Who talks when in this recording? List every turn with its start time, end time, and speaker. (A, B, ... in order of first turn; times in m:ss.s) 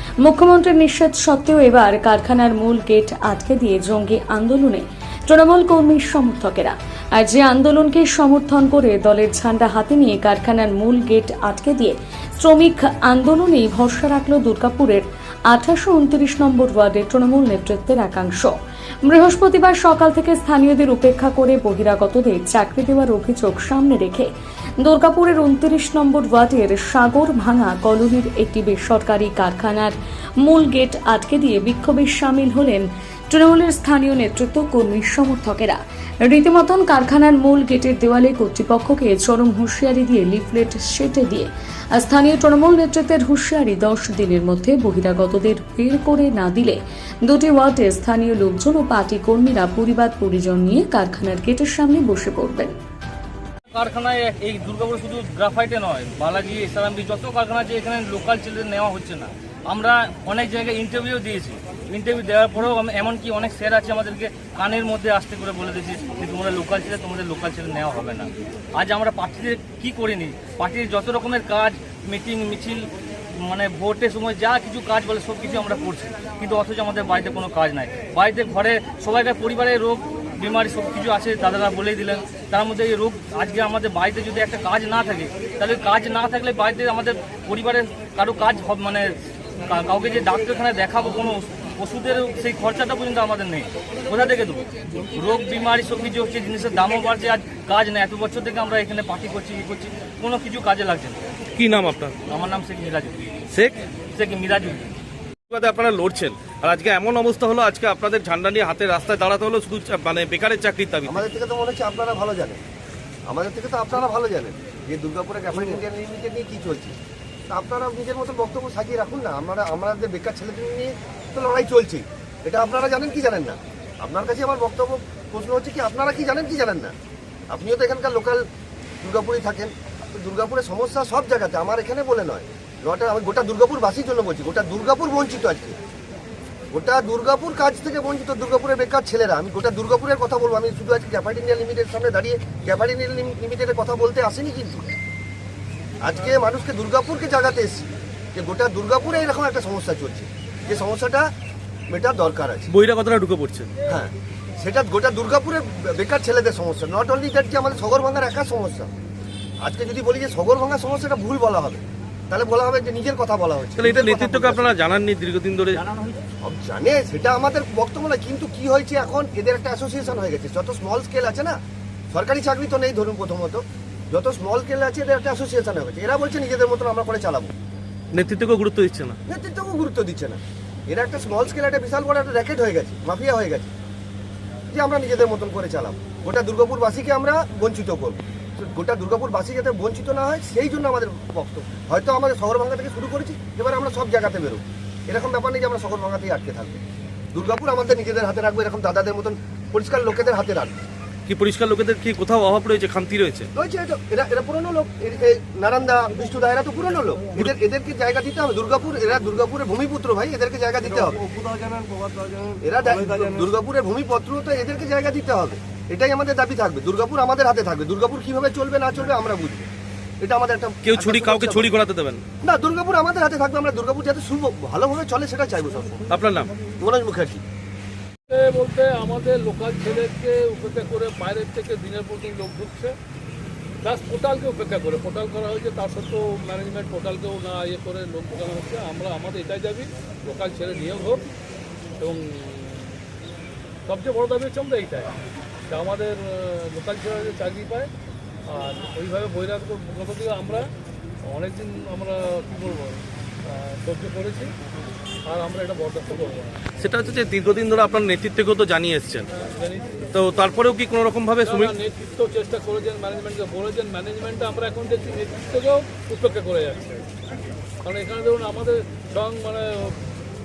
0:00.2-0:52.7 A
0:53.7-1:29.1 B
1:29.6-1:41.3 B
1:41.6-1:42.2 C
1:42.3-1:43.4 B
1:43.5-1:43.8 C
1:44.1-1:44.9 B
1:45.5-1:51.2 C
1:51.0-1:52.6 D
1:53.3-1:57.0 D
1:57.5-2:06.9 D
2:07.5-2:08.4 D
2:09.0-2:15.8 D
2:16.7-2:24.9 D
2:26.0-2:31.3 D
2:31.9-2:32.7 D
2:32.7-2:33.7 C
2:33.9-2:38.9 D
2:39.6-2:44.8 D
2:43.8-2:46.2 C
2:46.4-2:51.6 D
2:52.1-2:57.5 D
2:58.1-2:59.2 C
2:59.3-3:03.7 D
3:04.7-3:16.8 D
3:17.3-3:20.8 D
3:21.3-3:23.5 C
3:23.5-3:31.3 D
3:32.6-3:39.7 D
3:40.2-3:41.7 D
3:40.8-3:42.2 C
3:42.4-3:46.0 D
3:46.1-3:46.5 C
3:46.7-3:47.4 D
3:48.3-3:52.9 E
3:53.8-4:01.2 E
4:02.0-4:02.9 E
4:03.9-4:05.1 E
4:05.7-4:07.9 E
4:08.5-4:10.7 E
4:11.3-4:14.5 E
4:15.3-4:16.6 E
4:16.8-4:19.3 C
4:19.3-4:20.0 E
4:20.1-4:21.8 C
4:21.4-4:27.0 E
4:27.8-4:29.9 E